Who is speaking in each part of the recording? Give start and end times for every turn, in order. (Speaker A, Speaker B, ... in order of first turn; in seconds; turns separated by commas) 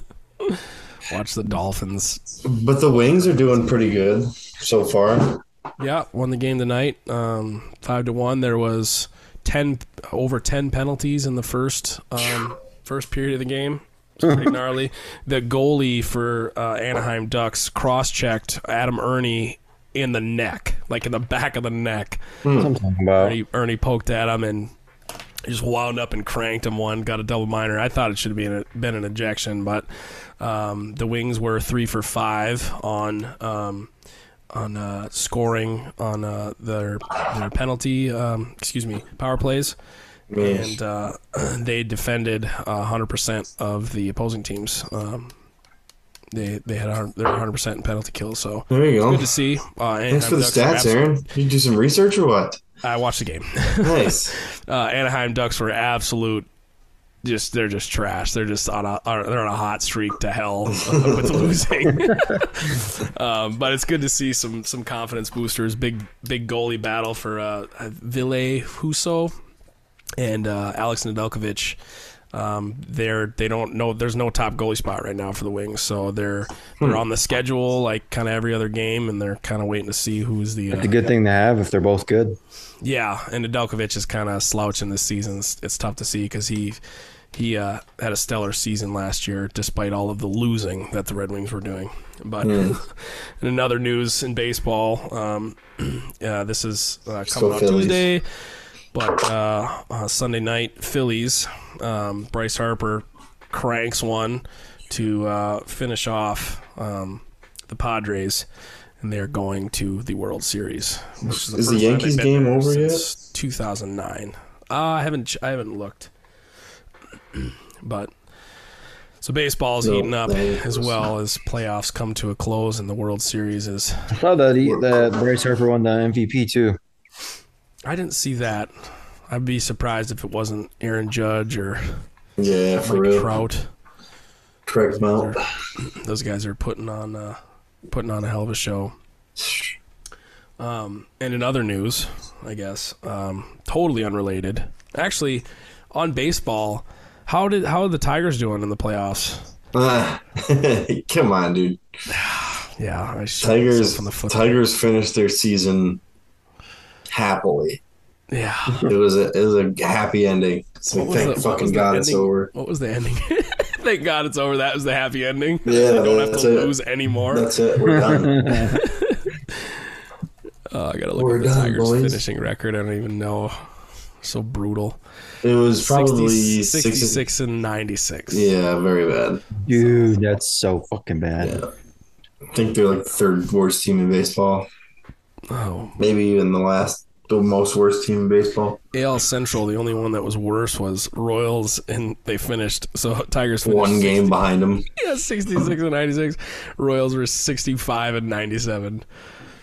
Speaker A: 0.5-2.2, Speaker B: 2.4-5.4, Speaker A: 5.8-22.2, Speaker B: 22.4-22.7, Speaker C: 22.6-23.4, Speaker A: 23.2-24.7, Speaker A: 25.4-29.9, Speaker A: 30.4-33.9, Speaker A: 34.5-39.8, Speaker B: 40.3-40.8, Speaker A: 40.4-45.3, Speaker A: 46.3-51.1, Speaker B: 48.7-49.3, Speaker B: 50.1-52.6, Speaker A: 52.8-56.5, Speaker B: 53.8-54.4, Speaker A: 57.2-69.3, Speaker B: 60.8-61.5, Speaker A: 70.2-71.8, Speaker A: 72.3-81.1, Speaker C: 80.7-82.4, Speaker A: 82.8-86.8, Speaker A: 87.3-98.2, Speaker B: 92.4-92.8, Speaker B: 97.3-98.1, Speaker A: 98.9-108.5, Speaker A: 109.0-116.1, Speaker B: 111.3-113.0, Speaker A: 117.3-118.1, Speaker A: 119.2-124.1, Speaker B: 119.8-121.0, Speaker C: 124.1-126.8, Speaker B: 124.6-125.0, Speaker A: 127.8-128.7, Speaker A: 129.3-132.0, Speaker B: 132.4-133.3, Speaker A: 132.8-133.7, Speaker B: 134.7-135.4, Speaker A: 135.1-138.9, Speaker B: 139.4-139.7, Speaker A: 140.6-149.5, Speaker B: 149.7-151.8, Speaker A: 152.1-154.6, Speaker B: 153.4-156.0, Speaker B: 157.1-157.8, Speaker A: 158.3-158.9, Speaker B: 158.8-162.5, Speaker A: 160.9-167.5, Speaker B: 165.6-166.7, Speaker B: 167.3-168.7, Speaker C: 167.8-168.8, Speaker A: 168.4-169.8, Speaker A: 170.7-173.7, Speaker B: 171.2-172.2, Speaker A: 174.2-175.0, Speaker B: 175.4-177.2, Speaker A: 175.8-178.5, Speaker B: 178.3-179.5, Speaker C: 179.7-181.6, Speaker A: 179.7-180.1, Speaker B: 181.4-181.7, Speaker B: 182.5-184.7, Speaker A: 185.5-186.0, Speaker B: 186.0-188.8, Speaker A: 188.9-194.3, Speaker B: 193.6-194.8, Speaker A: 194.9-199.0